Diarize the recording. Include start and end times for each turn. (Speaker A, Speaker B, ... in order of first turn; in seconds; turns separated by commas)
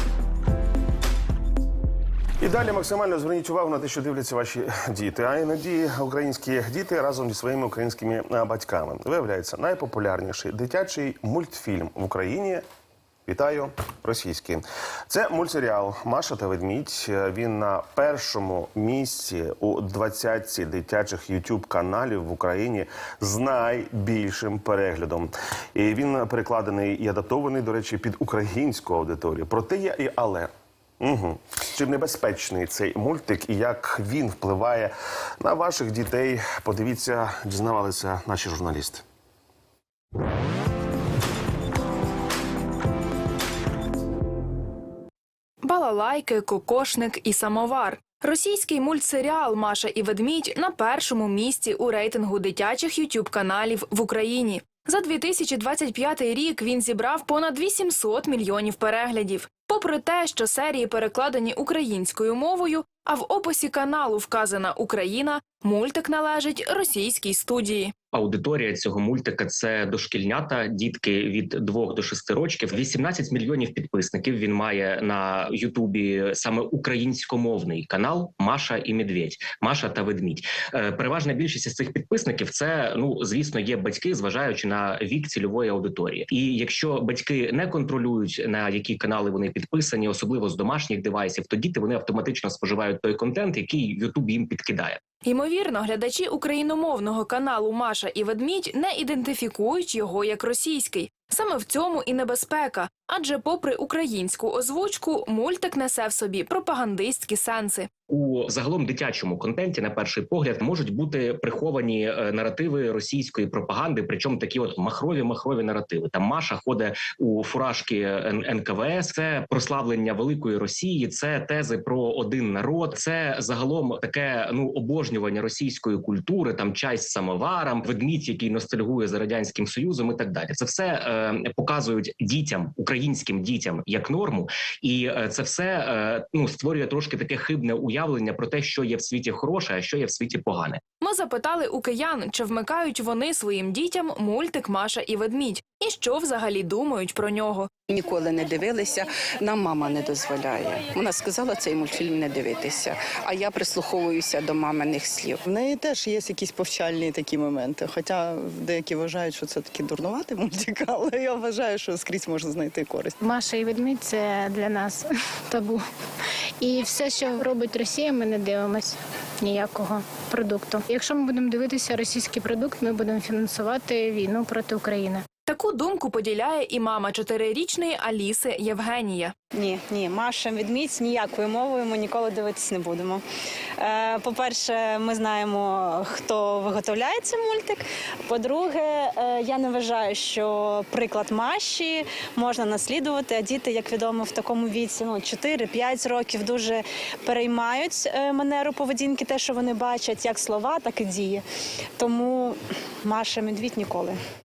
Speaker A: 2.4-12.6, Speaker A: 13.3-30.5, Speaker A: 31.0-39.0, Speaker B: 45.6-68.0, Speaker C: 68.1-95.0, Speaker B: 95.2-107.9, Speaker C: 108.1-140.8, Speaker B: 141.0-147.7, Speaker D: 147.9-155.4, Speaker E: 155.5-163.2, Speaker F: 163.2-165.0, Speaker F: 165.5-165.8, Speaker F: 166.6-168.9, Speaker F: 169.5-175.2, Speaker B: 175.5-179.3, Speaker G: 179.5-183.2, Speaker G: 183.8-201.4, Speaker G: 202.0-204.2